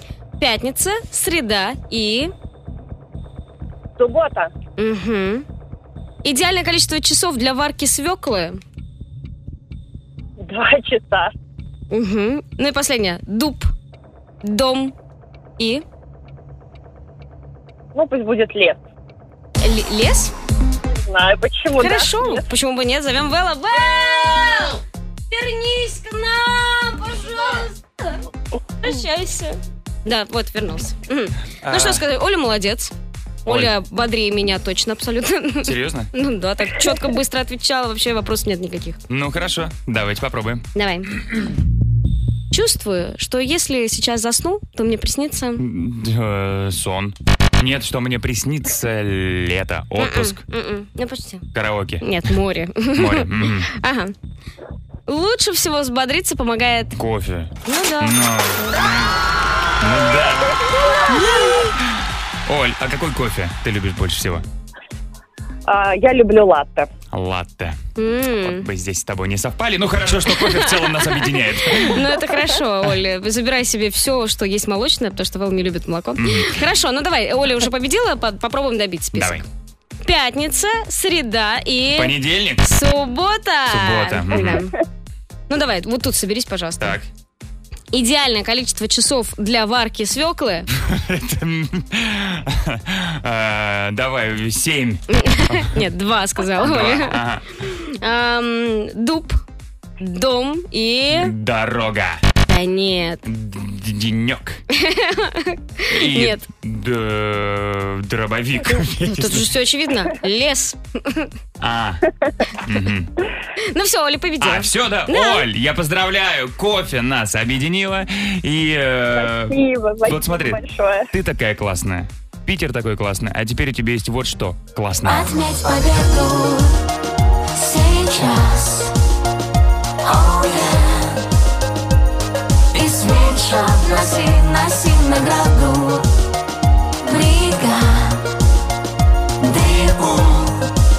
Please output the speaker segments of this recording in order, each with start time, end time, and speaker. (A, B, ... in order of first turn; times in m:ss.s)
0:00.4-0:02.3 A
0:04.0-0:04.5 B
0:04.8-0:05.4 A
0:06.2-0:08.6 A
0:10.4-0:11.3 B
0:11.9-0:13.7 A
0:14.4-0:14.9 A
0:15.6-0:15.8 A
0:18.0-0:18.8 B
0:19.6-0:20.3 A
0:20.9-0:22.5 B
0:21.8-0:24.8 A
0:25.3-0:27.7 A
0:28.8-0:32.9 A
0:31.6-0:32.0 C
0:33.5-0:39.0 A
0:35.6-0:36.1 C
0:39.1-0:40.6 C
0:40.8-0:41.1 A
0:42.5-0:45.6 A
0:45.6-0:50.4 C
0:50.0-0:51.4 A
0:51.5-0:52.1 C
0:52.0-0:54.1 A
0:53.0-0:53.7 C
0:55.1-0:57.0 A
0:57.0-0:59.1 C
0:57.7-0:58.1 A
0:59.8-1:04.5 C
1:05.7-1:06.9 B
1:07.1-1:07.8 C
1:08.0-1:08.6 A
1:08.4-1:12.1 C
1:10.6-1:19.4 A
1:16.2-1:16.5 C
1:19.1-1:19.4 C
1:20.0-1:24.7 A
1:22.0-1:22.6 C
1:23.7-1:24.6 C
1:25.5-1:27.0 A
1:26.8-1:27.1 C
1:27.9-1:30.7 A
1:30.8-1:35.8 C
1:35.1-1:39.4 A
1:36.6-1:37.4 C
1:40.0-1:41.3 A
1:41.1-1:42.2 C
1:42.5-1:43.2 A
1:43.3-1:44.6 C
1:44.7-1:46.4 A
1:45.9-1:49.5 C
1:49.0-1:51.3 A
1:51.6-1:52.0 C
1:52.6-1:53.1 C
1:53.7-1:55.4 A
1:54.4-2:05.4 C
1:59.2-2:01.1 B
2:05.1-2:06.8 D
2:07.6-2:08.9 D
2:10.0-2:11.2 D
2:12.7-2:16.1 D
2:17.0-2:18.2 D
2:19.4-2:20.6 D